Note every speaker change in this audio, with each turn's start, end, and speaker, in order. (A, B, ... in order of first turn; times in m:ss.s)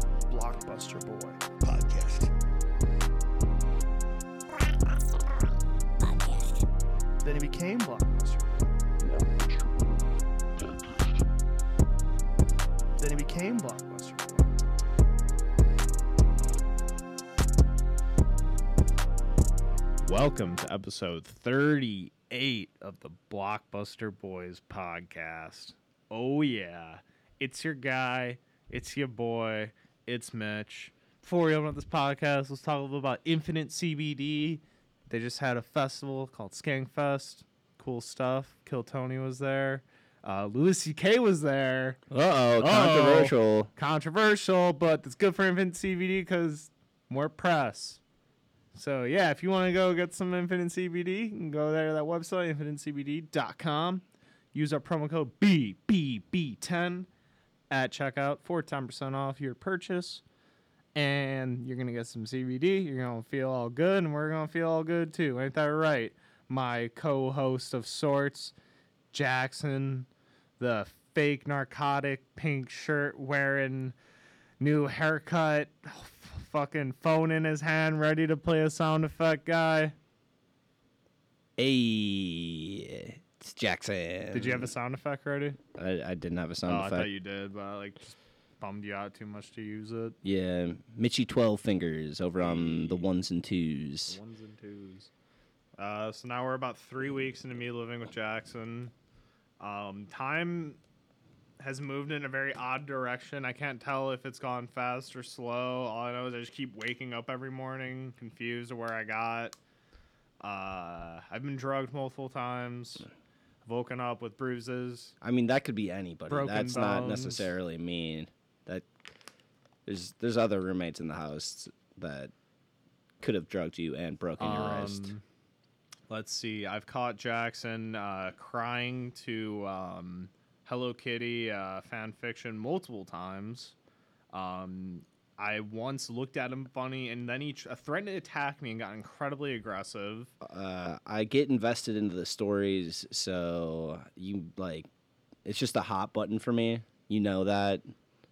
0:00.3-0:02.3 A
0:07.2-0:08.5 A
0:13.0-0:14.5 A
0:20.1-0:42.0 B
0:42.1-0:43.7 C
0:42.6-0:48.0 B
0:48.7-0:57.1 B
0:57.7-1:00.2 B
1:01.0-1:08.6 B
1:09.1-1:10.1 B
1:10.6-1:14.0 B
1:14.6-1:20.0 B
1:21.6-1:24.7 C
1:24.3-1:25.6 B
1:25.8-1:27.1 C
1:26.7-1:30.2 B
1:30.2-1:34.2 C
1:32.4-1:33.1 B
1:34.1-1:35.1 B
1:35.8-1:38.9 B
1:39.6-1:40.8 B
1:41.6-1:49.6 B
1:50.4-1:53.1 B
1:53.6-1:55.1 B
1:55.2-1:58.9 C
1:56.3-1:57.5 B
1:59.9-2:02.3 C
2:03.2-2:05.1 C
2:04.4-2:05.2 B
2:06.1-2:13.8 B
2:14.3-2:20.3 B
2:20.4-2:24.9 C
2:25.4-2:27.9 C